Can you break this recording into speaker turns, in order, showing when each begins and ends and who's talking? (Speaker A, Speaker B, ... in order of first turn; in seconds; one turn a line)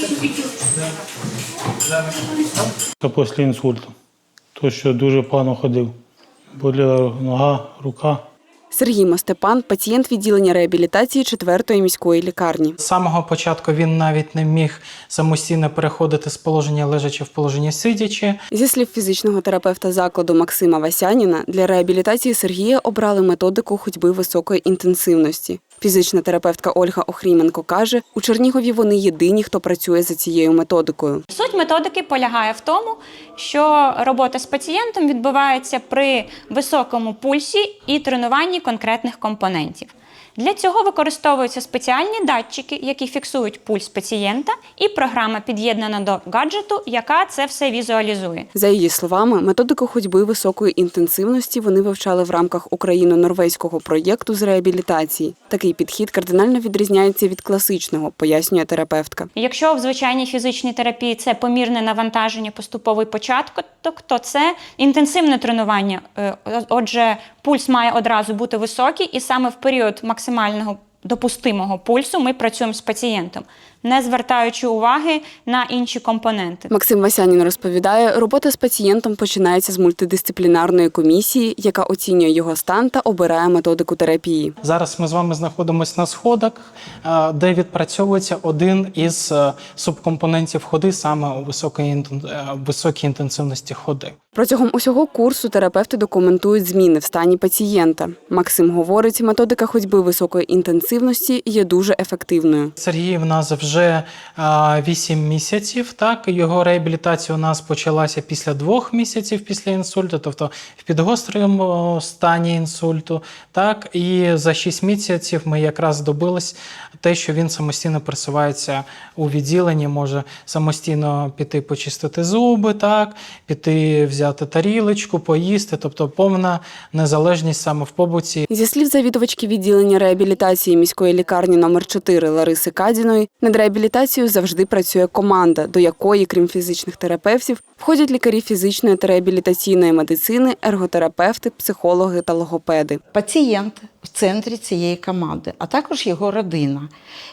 Speaker A: 0.2-0.6
Speaker B: 0.7-1.0
Speaker B: 1.9-2.7
Speaker C: 3.0-3.9
Speaker C: 4.5-6.0
Speaker C: 6.5-8.2
Speaker D: 8.7-12.8
Speaker B: 12.8-18.4
Speaker D: 18.5-31.2
Speaker A: 31.3-48.5
Speaker D: 48.5-59.3
Speaker A: 59.4-76.7
Speaker D: 76.7-84.5
Speaker B: 84.6-94.2
Speaker D: 94.3-102.7
Speaker B: 102.8-128.5
Speaker D: 128.5-143.0
Speaker E: 143.1-146.9